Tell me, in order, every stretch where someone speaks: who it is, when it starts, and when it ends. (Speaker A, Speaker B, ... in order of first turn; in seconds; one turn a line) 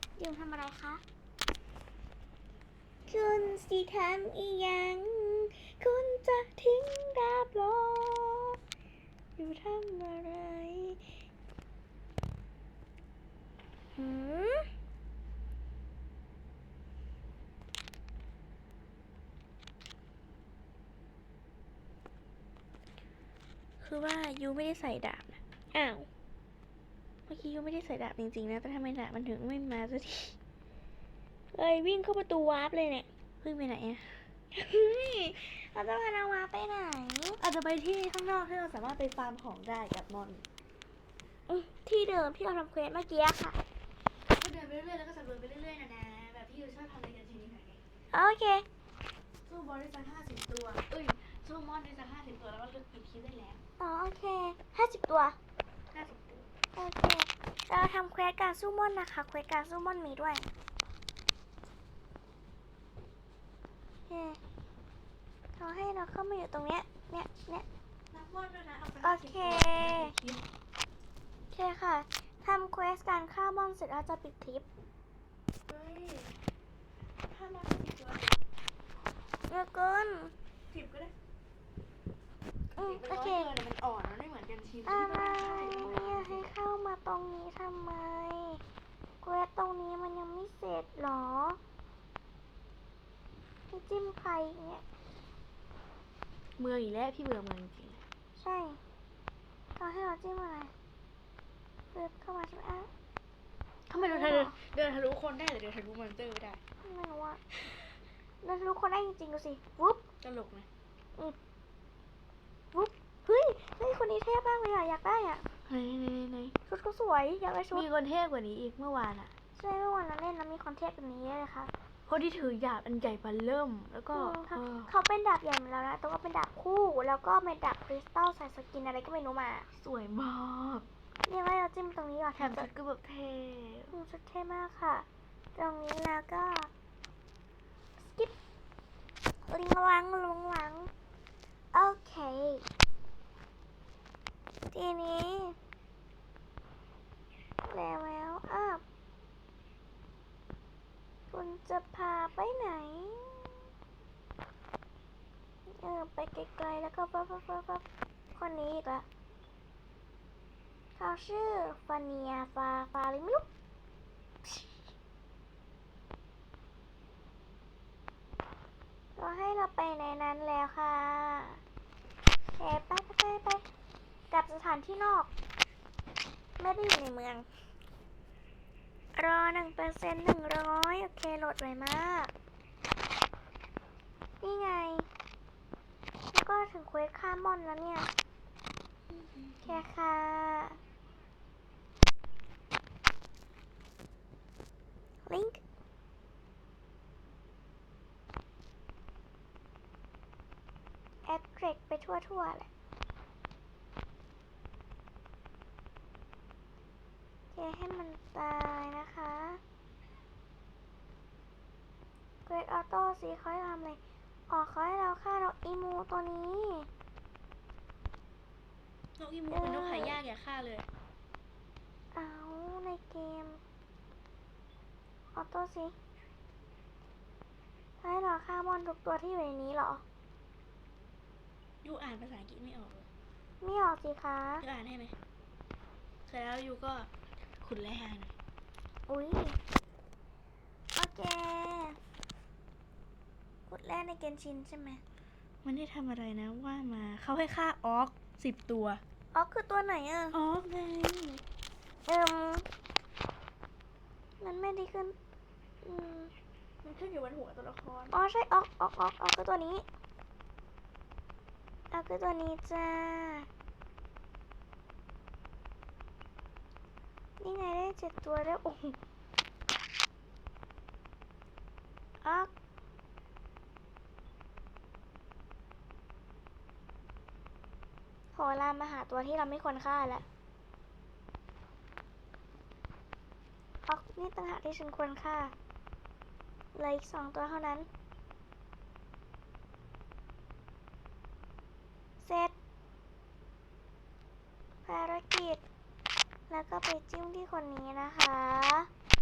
Speaker A: 0.2-1.0
Speaker A: 3.1-8.6
Speaker A: 9.4-11.1
Speaker A: 13.9-14.7
Speaker B: 23.8-25.4
Speaker A: 25.7-26.1
Speaker B: 27.3-30.4
Speaker A: 31.5-33.1
Speaker B: 33.4-34.2
Speaker A: 34.5-37.4
Speaker B: 37.4-40.4
Speaker A: 41.5-43.6
Speaker B: 44.2-47.8
Speaker A: 48.1-48.6
Speaker B: 49.4-53.6
Speaker A: 53.8-55.4
Speaker B: 55.9-56.5
Speaker A: 56.8-60.5
Speaker A: 64.1-64.4
Speaker A: 65.6-67.7
Speaker B: 68.1-70.4
Speaker A: 69.0-70.1
Speaker A: 71.5-74.7
Speaker B: 75.7-76.4
Speaker B: 77.2-78.4
Speaker A: 79.5-80.3
Speaker B: 80.7-81.1
Speaker B: 82.7-86.5
Speaker A: 82.8-83.5
Speaker A: 84.8-88.6
Speaker A: 89.2-91.6
Speaker A: 93.7-94.8
Speaker B: 96.6-98.0
Speaker A: 98.3-98.8
Speaker A: 99.8-100.7
Speaker A: 101.9-102.9
Speaker B: 103.9-106.6
Speaker A: 104.0-104.6
Speaker A: 106.8-107.4
Speaker B: 107.5-107.8
Speaker A: 108.4-110.1
Speaker B: 110.2-110.7
Speaker A: 112.7-115.5
Speaker B: 115.7-116.6
Speaker A: 116.7-117.8
Speaker B: 117.7-119.3
Speaker A: 119.5-121.7
Speaker B: 122.1-124.9
Speaker A: 124.1-129.7
Speaker B: 129.7-130.8
Speaker A: 131.2-132.7
Speaker B: 132.4-133.9
Speaker A: 133.9-136.7
Speaker A: 138.0-138.3
Speaker A: 139.5-140.9
Speaker A: 141.7-142.7
Speaker A: 144.7-145.6
Speaker A: 147.6-148.8
Speaker A: 151.3-153.5
Speaker A: 155.7-159.1
Speaker A: 161.0-163.4
Speaker A: 169.2-171.6
Speaker A: 172.6-173.6
Speaker A: 174.3-175.3
Speaker A: 176.6-177.5
Speaker A: 179.2-182.3
Speaker A: 184.4-185.1
Speaker A: 186.3-188.1
Speaker B: 189.1-189.8
Speaker A: 189.7-190.8
Speaker A: 195.2-195.6
Speaker A: 201.3-202.7
Speaker A: 207.5-209.6
Speaker A: 212.4-216.9
Speaker B: 219.2-220.9
Speaker A: 219.5-220.2
Speaker A: 222.1-223.6
Speaker A: 225.3-225.9
Speaker A: 228.0-230.0
Speaker B: 231.8-233.1
Speaker A: 233.6-234.6
Speaker B: 234.6-235.2
Speaker B: 236.2-237.1
Speaker B: 237.6-238.3
Speaker A: 239.1-239.6
Speaker A: 240.9-242.0
Speaker A: 243.7-245.0
Speaker B: 245.6-249.0
Speaker A: 249.3-250.4
Speaker B: 250.3-251.4
Speaker A: 252.1-252.7
Speaker A: 254.4-255.1
Speaker A: 255.8-256.3
Speaker B: 256.8-258.1
Speaker A: 258.1-259.8
Speaker A: 261.9-263.5
Speaker A: 267.4-269.0
Speaker A: 272.2-272.5
Speaker A: 278.3-280.2
Speaker A: 283.9-285.5
Speaker A: 286.7-287.9
Speaker A: 292.2-292.5
Speaker A: 294.8-295.6
Speaker A: 296.5-298.9